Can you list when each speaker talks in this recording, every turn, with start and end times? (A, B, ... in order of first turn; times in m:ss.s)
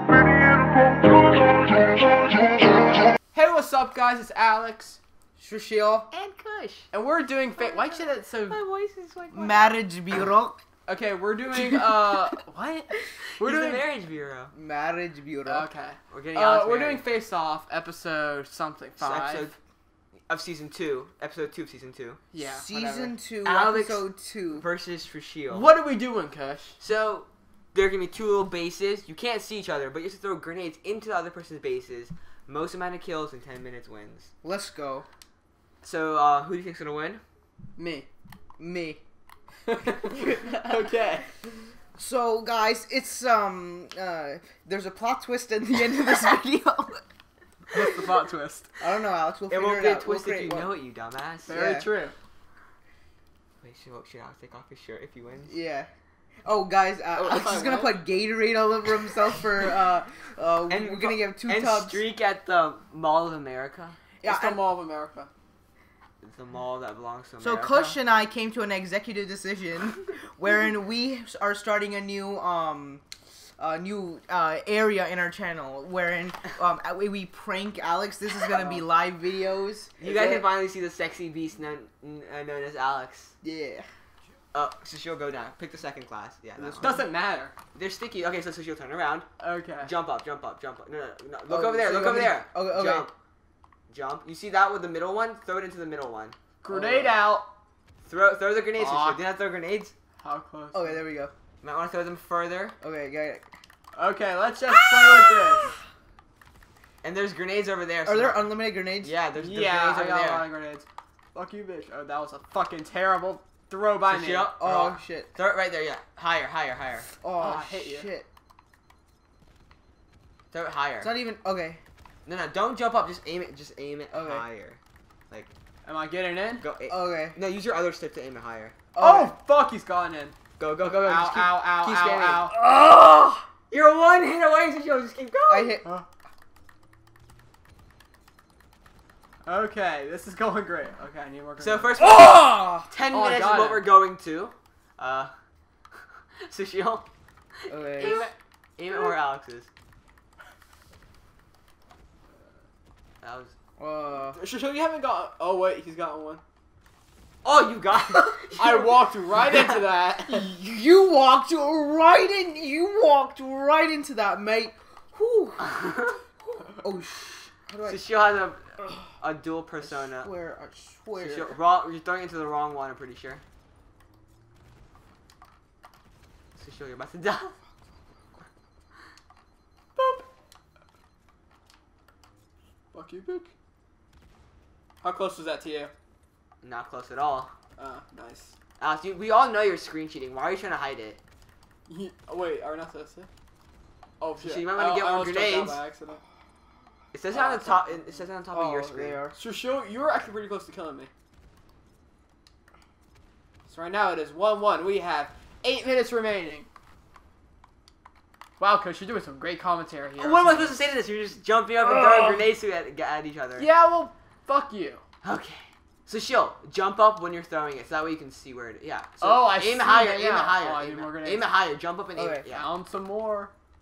0:03.3-0:05.0 A
0:05.4-0:06.1 B
0:06.1-0:06.9 C
0:06.9-0:08.6 A
0:08.5-0:09.8 C
0:09.3-0:10.6 B
0:10.9-0:13.9 A
0:11.5-0:12.0 B
0:13.4-0:14.5 C
0:14.5-0:15.7 B
0:15.4-0:19.5 A
0:16.1-0:17.0 C
0:19.0-0:19.6 C
0:20.3-0:22.2 C
0:22.3-0:23.1 A
0:22.4-0:24.7 B
0:23.4-0:25.7 C
0:25.5-0:26.8 A
0:26.8-0:34.3 C
0:34.4-0:35.0 B
0:35.8-0:37.2 C
0:37.8-0:38.1 A
0:38.6-0:39.0 B
0:39.7-0:41.3 A
0:42.0-0:47.0 B
0:47.7-0:48.8 A
0:48.8-0:50.7 B
0:49.5-0:51.6 C
0:51.5-0:52.1 A
0:51.5-0:51.9 B
0:53.6-0:55.6 C
0:55.5-0:55.9 B
0:56.4-1:02.0 B
0:57.2-0:57.9 C
0:57.3-0:57.9 A
1:00.7-1:04.0 C
1:04.2-1:04.7 B
1:04.2-1:05.3 A
1:06.2-1:08.0 C
1:07.4-1:13.0 B
1:13.6-1:20.4 B
1:18.5-1:18.8 A
1:20.0-1:23.3 C
1:23.4-1:23.8 B
1:24.5-1:27.0 C
1:26.6-1:27.1 B
1:26.8-1:27.5 A
1:27.7-1:29.3 C
1:29.4-1:29.9 A
1:29.8-1:33.1 C
1:31.5-1:33.1 B
1:33.9-1:36.4 C
1:36.6-1:37.5 A
1:36.7-1:37.1 B
1:38.0-1:39.9 C
1:38.8-1:39.2 A
1:40.2-1:41.0 A
1:40.7-1:41.3 B
1:41.6-1:42.8 C
1:42.8-1:43.5 B
1:44.0-1:45.7 A
1:47.0-1:50.5 C
1:48.0-1:49.2 B
1:49.3-1:54.6 A
1:54.1-1:57.1 C
1:54.6-1:55.3 B
1:57.2-1:58.3 B
1:57.4-1:58.1 A
2:00.5-2:01.1 C
2:01.0-2:01.8 B
2:02.2-2:04.8 C
2:04.1-2:04.4 B
2:05.8-2:06.6 A
2:06.6-2:08.8 C
2:06.8-2:07.4 B
2:08.9-2:09.3 B
2:09.0-2:10.4 A
2:10.6-2:15.8 C
2:11.0-2:12.5 A
2:15.5-2:15.8 B
2:19.4-2:22.0 A
2:21.6-2:25.3 C
2:22.0-2:22.9 B
2:23.1-2:23.9 A
2:26.4-2:27.0 C
2:27.7-2:28.3 B
2:28.0-2:29.7 C
2:33.2-2:33.5 C
2:33.8-2:34.4 B
2:34.4-2:36.4 A
2:37.4-2:38.8 C
2:38.6-2:40.5 A
2:39.4-2:39.8 C
2:40.3-2:45.7 B
2:45.6-2:46.2 C
2:46.5-2:48.0 B
2:47.8-2:50.3 C
2:49.8-2:51.6 B
2:51.2-2:53.4 C
2:56.6-2:57.6 C
3:00.0-3:00.2 A
3:02.9-3:03.5 A
3:05.0-3:05.9 A
3:06.6-3:07.5 C
3:07.8-3:08.5 A
3:08.8-3:11.2 C
3:11.9-3:13.3 A
3:14.2-3:16.2 A
3:14.4-3:15.8 C
3:17.1-3:19.2 C
3:17.3-3:18.2 A
3:18.5-3:19.4 B
3:19.3-3:21.1 A
3:23.7-3:26.7 A
3:28.6-3:30.8 A
3:30.2-3:33.7 C
3:31.8-3:32.4 A
3:33.6-3:35.0 A
3:35.2-3:42.7 C
3:39.2-3:41.5 A
3:42.2-3:42.4 B
3:42.5-3:43.5 A